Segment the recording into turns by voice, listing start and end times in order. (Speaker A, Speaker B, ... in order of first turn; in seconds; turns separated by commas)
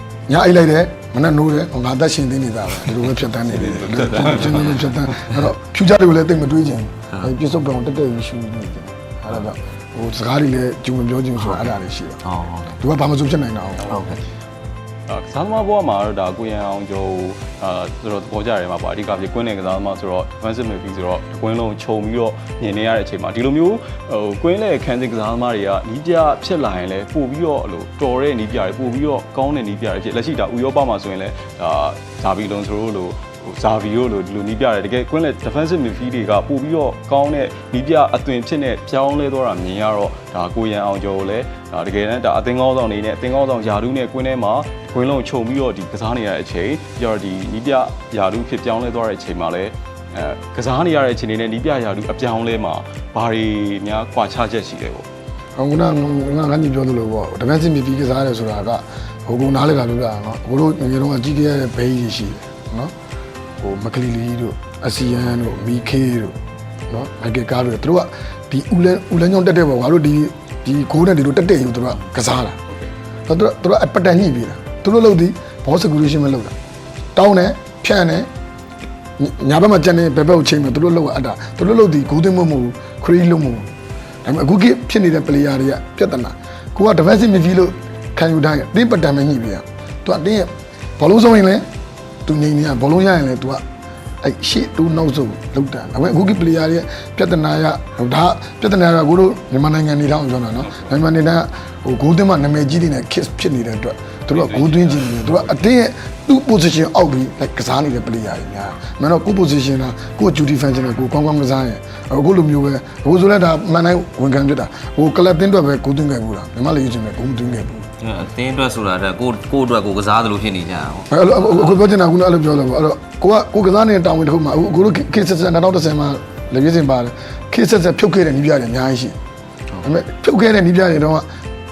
Speaker A: 0.3-12.2, Speaker B: 3.7-4.4, Speaker C: 4.3-5.4, Speaker C: 11.4-12.8, Speaker A: 12.8-13.9, Speaker C: 13.9-14.2, Speaker B: 15.1-55.1, Speaker A: 55.6-62.9, Speaker A: 63.6-66.4, Speaker A: 66.9-72.6, Speaker A: 73.3-76.5, Speaker A: 77.2-78.3, Speaker A: 79.2-83.7, Speaker A: 84.2-91.7, Speaker A: 92.2-93.6, Speaker A: 94.2-117.8, Speaker B: 104.3-105.4, Speaker C: 118.0-121.8, Speaker A: 121.1-129.2, Speaker A: 129.8-131.2